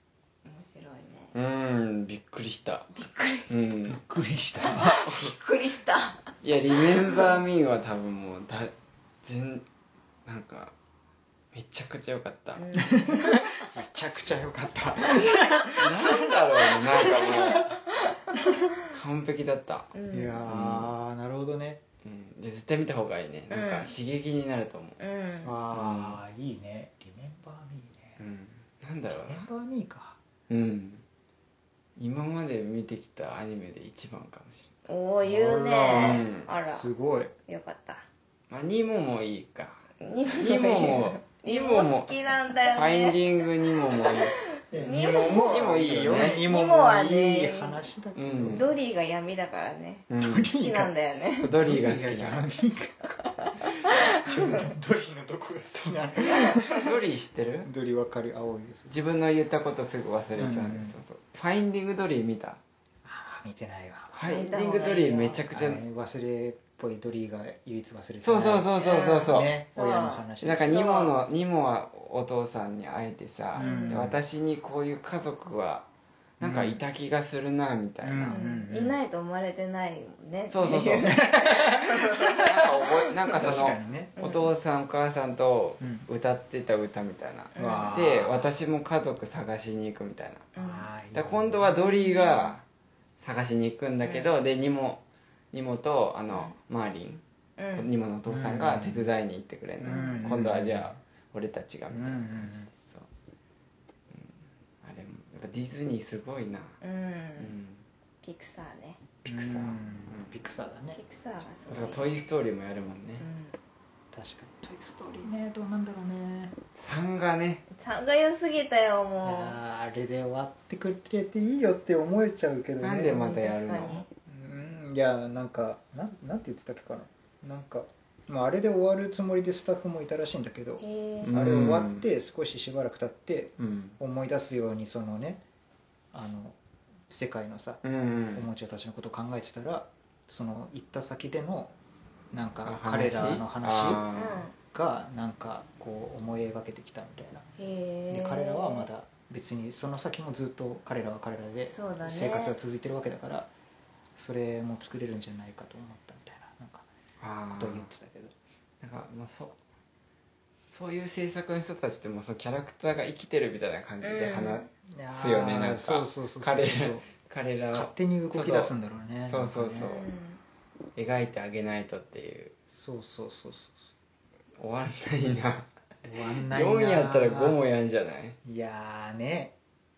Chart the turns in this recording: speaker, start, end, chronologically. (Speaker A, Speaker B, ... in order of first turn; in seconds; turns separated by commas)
Speaker A: 0.4-1.3, Speaker B: 1.3-4.0, Speaker A: 2.9-3.5, Speaker C: 3.9-5.0, Speaker A: 4.6-6.3, Speaker B: 5.1-5.3, Speaker B: 6.4-9.6, Speaker A: 7.0-7.4, Speaker B: 10.2-10.7, Speaker B: 11.5-12.6, Speaker A: 12.6-13.5, Speaker C: 12.7-17.8, Speaker B: 15.7-17.8, Speaker B: 18.9-19.9, Speaker A: 19.9-20.4, Speaker C: 20.1-21.8, Speaker B: 20.5-20.9, Speaker B: 22.0-25.0, Speaker A: 23.5-23.9, Speaker A: 25.0-25.6, Speaker C: 25.4-28.2, Speaker B: 25.7-26.2, Speaker B: 28.2-29.4, Speaker C: 29.1-30.2, Speaker B: 30.5-31.0, Speaker B: 32.0-34.7, Speaker A: 34.9-36.9, Speaker C: 35.2-37.3, Speaker B: 35.8-36.5, Speaker A: 37.5-38.1, Speaker B: 38.5-42.1, Speaker A: 40.0-47.9, Speaker B: 42.7-44.4, Speaker C: 44.7-48.7, Speaker B: 45.5-46.4, Speaker B: 48.1-48.6, Speaker A: 48.5-51.5, Speaker B: 50.1-50.5, Speaker C: 50.2-53.2, Speaker B: 51.4-52.5, Speaker A: 53.2-54.7, Speaker C: 54.1-56.9, Speaker A: 56.2-56.8, Speaker B: 56.7-57.7, Speaker C: 57.6-58.9, Speaker B: 58.9-62.6, Speaker C: 60.4-60.9, Speaker C: 63.0-64.3, Speaker B: 64.1-65.8, Speaker A: 64.2-65.4, Speaker C: 65.5-68.7, Speaker B: 68.2-69.5, Speaker A: 68.8-71.1, Speaker C: 69.2-70.8, Speaker B: 70.4-75.9, Speaker A: 73.6-74.1, Speaker C: 73.6-74.2, Speaker B: 76.4-78.4, Speaker C: 76.4-76.8, Speaker C: 78.0-79.0, Speaker A: 78.3-82.6, Speaker B: 80.5-81.2, Speaker C: 81.0-82.5, Speaker B: 82.4-90.5, Speaker C: 83.3-84.1, Speaker A: 83.3-83.6, Speaker A: 84.2-84.5, Speaker C: 85.8-86.1, Speaker A: 87.5-88.2, Speaker C: 87.6-88.4, Speaker A: 90.5-90.9, Speaker C: 90.6-91.6, Speaker B: 91.1-92.6, Speaker A: 91.7-92.5, Speaker B: 93.2-97.2, Speaker A: 94.0-94.3, Speaker A: 97.6-97.9, Speaker B: 97.7-103.1, Speaker C: 98.3-99.1, Speaker A: 99.8-100.4, Speaker C: 99.8-101.0, Speaker C: 101.9-102.7, Speaker B: 104.1-106.8, Speaker A: 106.8-107.5, Speaker B: 107.4-107.8, Speaker A: 108.2-109.0, Speaker C: 109.2-111.0, Speaker B: 109.2-110.3, Speaker A: 111.0-112.1, Speaker B: 111.7-113.2, Speaker A: 113.2-113.6, Speaker C: 114.1-116.5, Speaker B: 116.8-117.6, Speaker A: 117.7-119.6, Speaker C: 119.2-123.3, Speaker B: 122.8-124.1, Speaker A: 123.0-124.1, Speaker C: 124.3-135.4, Speaker A: 130.8-131.3, Speaker B: 131.2-132.1, Speaker B: 133.6-134.0, Speaker C: 136.1-136.6, Speaker C: 137.1-137.8, Speaker B: 137.8-138.4, Speaker C: 138.3-141.7, Speaker C: 142.3-144.1, Speaker B: 142.6-144.4, Speaker A: 144.1-144.6, Speaker C: 144.7-147.4, Speaker A: 147.6-148.9, Speaker C: 148.1-153.5, Speaker A: 151.6-152.6, Speaker C: 154.2-156.9, Speaker B: 157.2-157.9, Speaker C: 157.5-158.3, Speaker B: 158.8-159.6, Speaker B: 160.7-168.7, Speaker A: 164.0-164.7, Speaker C: 164.9-167.1, Speaker C: 167.7-169.9, Speaker B: 169.2-170.1, Speaker A: 169.8-170.4, Speaker B: 170.9-172.5, Speaker C: 172.7-173.7, Speaker B: 174.6-175.7, Speaker C: 176.0-177.6, Speaker B: 176.5-178.4, Speaker C: 178.4-179.5